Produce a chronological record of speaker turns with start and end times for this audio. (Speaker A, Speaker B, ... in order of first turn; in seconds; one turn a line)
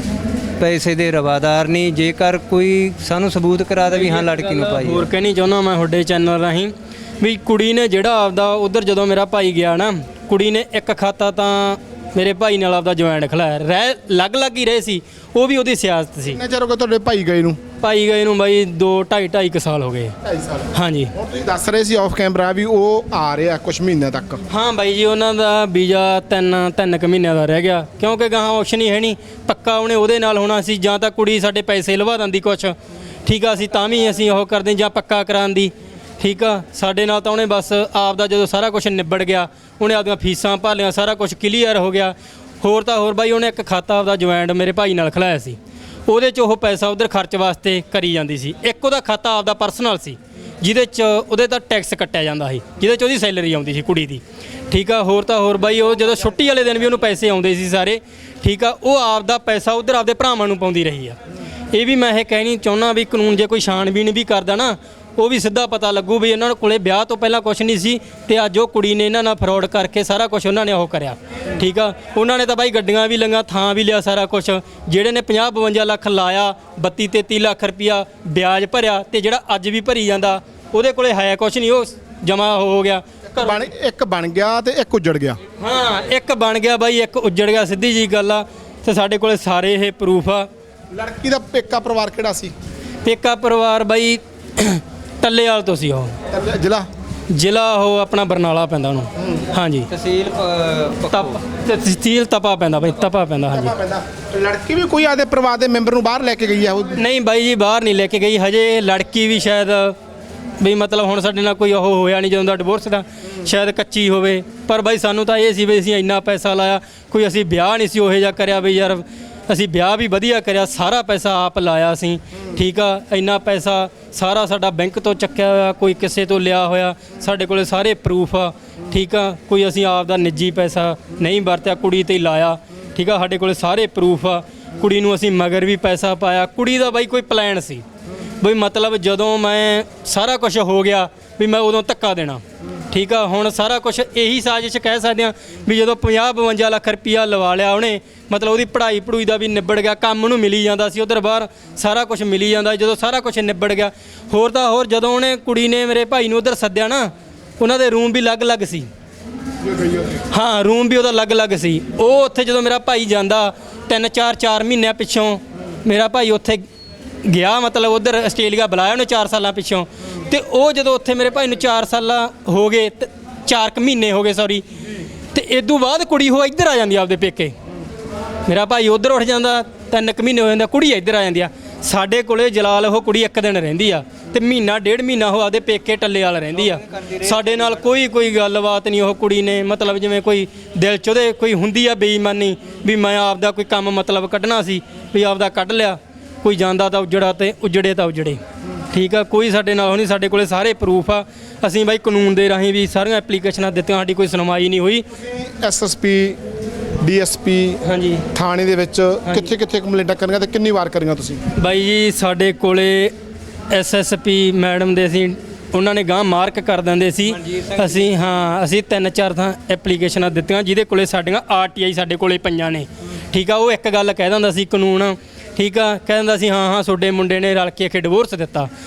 Speaker A: 0.6-5.0
Speaker B: 3.9-16.4
Speaker C: 16.2-17.6
Speaker B: 17.8-20.1
Speaker C: 20.2-24.4
Speaker B: 20.7-21.1
Speaker B: 24.5-32.7
Speaker B: 33.2-61.2
Speaker B: 61.7-83.7
Speaker C: 83.3-85.4
Speaker B: 85.6-90.5
Speaker C: 90.9-92.5
Speaker B: 93.0-96.2
Speaker C: 96.3-96.9
Speaker B: 97.3-99.9
Speaker C: 99.2-99.4
Speaker A: 99.9-101.4
Speaker B: 101.1-103.7
Speaker C: 103.5-107.0
Speaker B: 107.0-110.0
Speaker B: 110.6-137.8
Speaker B: 138.4-158.9
Speaker C: 159.7-160.2
Speaker B: 160.3-166.6
Speaker B: 167.2-174.7
Speaker B: 175.3-177.5
Speaker B: 178.4-198.4
Speaker A: 186.5-187.9
Speaker B: 198.9-205.0
Speaker C: 205.1-206.4
Speaker C: 207.0-207.8
Speaker B: 207.8-208.2
Speaker C: 208.3-211.4
Speaker B: 211.6-213.1
Speaker B: 213.7-228.7
Speaker A: 217.3-218.1